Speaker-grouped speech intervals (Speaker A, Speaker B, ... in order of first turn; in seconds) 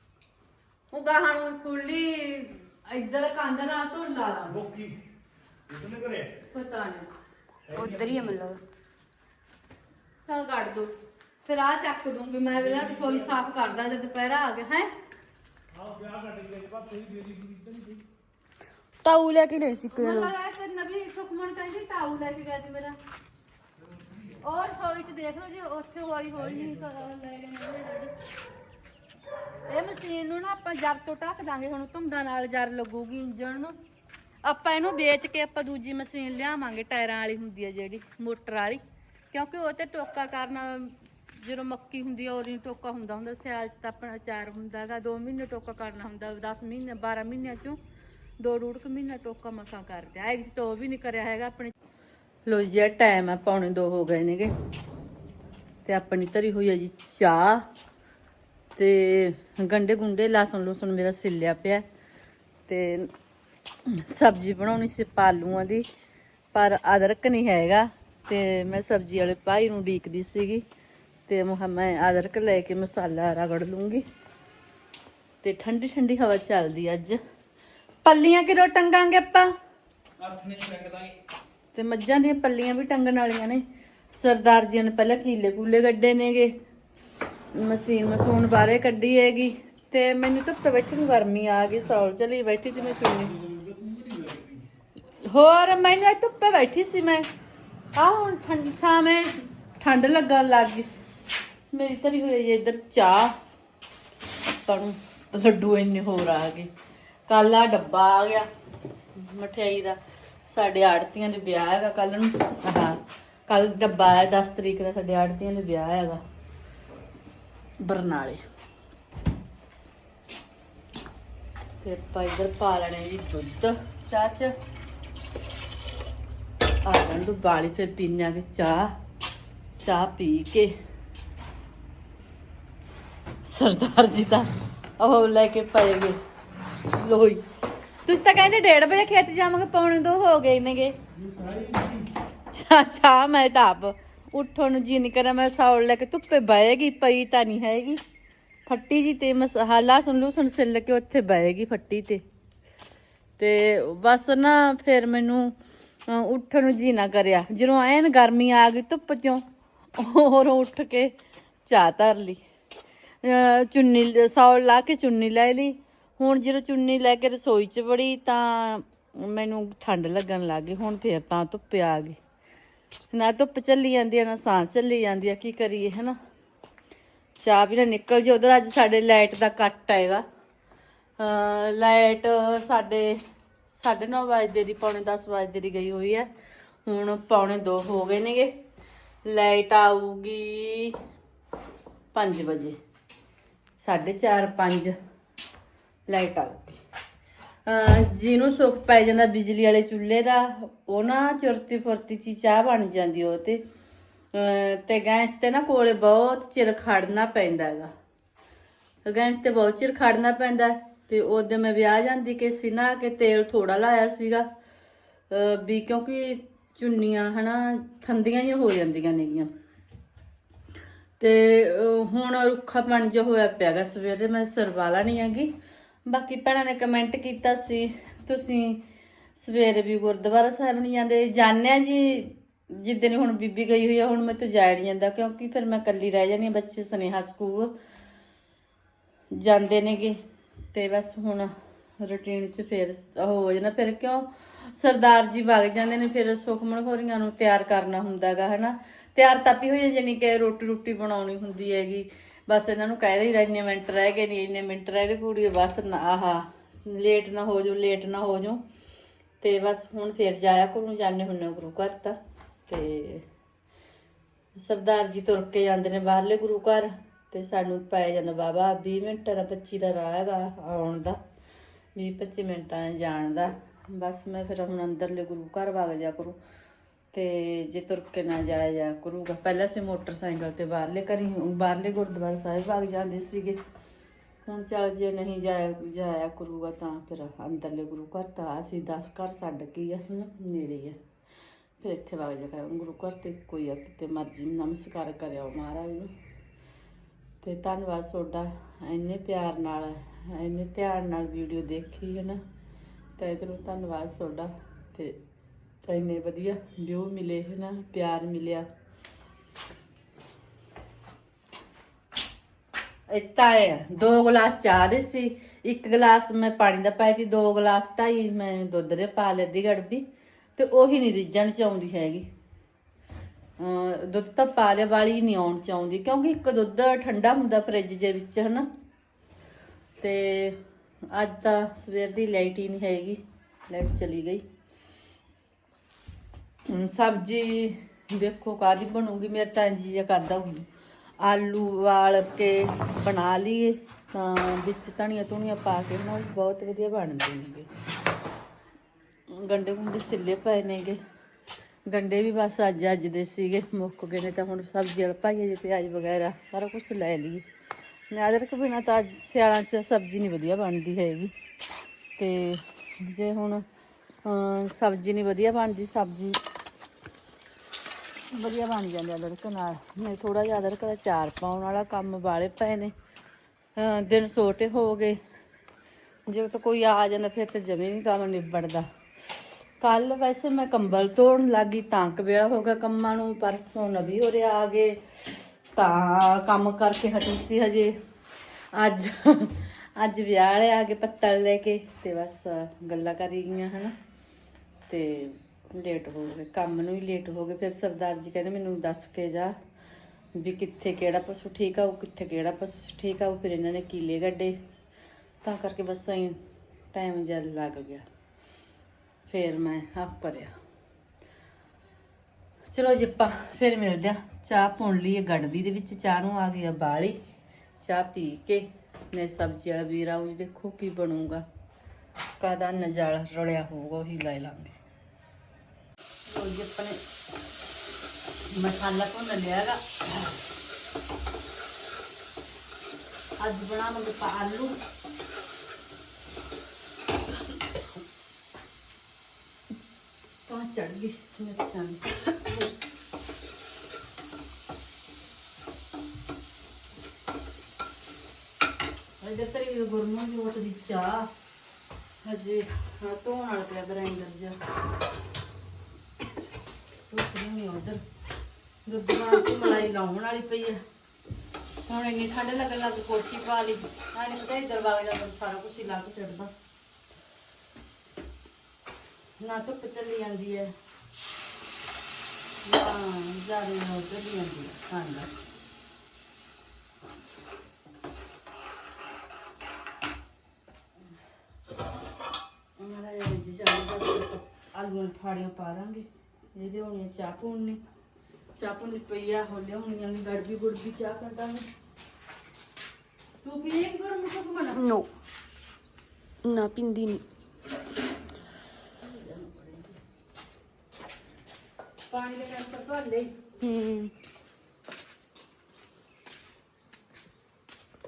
Speaker A: 0.9-4.6, 6.5-7.1, 10.2-10.9, 11.4-14.9, 19.9-23.0, 24.4-28.1, 29.6-33.8, 34.4-38.8, 39.3-47.8, 48.4-51.7, 52.4-54.5, 55.8-57.6, 58.8-61.8, 62.7-63.1, 63.9-65.8, 66.5-70.6, 71.3-74.0, 75.4-77.2, 78.0-79.5, 81.7-83.6, 84.1-86.5, 87.5-93.3, 95.2-97.3, 98.0-100.9, 101.7-103.3, 104.7-106.7, 107.3-108.5, 109.2-116.2, 117.8-118.4, 121.8-124.5, 126.8-128.9, 129.8-130.7, 133.4-136.2, 136.9-137.4, 138.1-140.9, 142.5-148.0, 148.7-152.2, 153.4-155.5, 156.1-159.4, 160.0-161.1, 161.7-162.4, 163.2-172.2, 173.1-176.2, 177.4-180.2, 181.2-183.2, 183.7-186.3, 186.8-188.5, 189.2-191.0, 192.1-192.8, 193.8-194.9, 196.1-196.8, 197.7-203.6, 204.3-207.9, 209.1-214.5, 215.3-219.5, 221.2-225.5, 226.1-228.8, 229.3-237.7, 239.3-240.2, 240.7-258.6, 259.4-263.2, 264.5-271.2, 271.9-276.4, 277.1-283.6, 284.4-291.0, 291.8-296.1, 297.4-302.4, 303.2-305.2, 305.8-308.6, 313.1-320.0, 320.6-322.3, 323.6-328.7, 330.0-334.4, 336.7-340.6, 341.2-347.7, 349.3-351.0, 351.9-357.4, 358.1-361.3, 362.2-363.6, 364.2-366.4, 368.3-372.9, 373.8-375.2, 376.3-378.9, 379.8-387.9, 388.7-393.9, 394.9-399.5, 400.4-404.6, 405.4-406.4, 406.9-408.0, 409.3-410.5, 412.7-417.2, 417.8-421.4, 422.4-424.8, 426.3-427.0, 428.5-430.3, 433.4-434.8, 440.5-442.7, 449.2-451.3, 452.2-454.6, 457.1-458.0, 458.9-460.8, 461.9-466.5, 469.4-470.7, 472.6-475.3, 482.8-487.8, 488.5-491.7, 493.4-494.8, 499.0-500.0, 502.1-503.4
Speaker B: 4.5-5.0, 5.7-6.4, 7.7-8.4, 12.5-13.4, 15.7-18.0, 26.4-27.0, 80.2-81.0, 92.8-94.7, 141.2-142.1
Speaker C: 7.7-8.6, 19.0-20.3, 494.7-495.1, 496.4-497.2, 503.6-504.1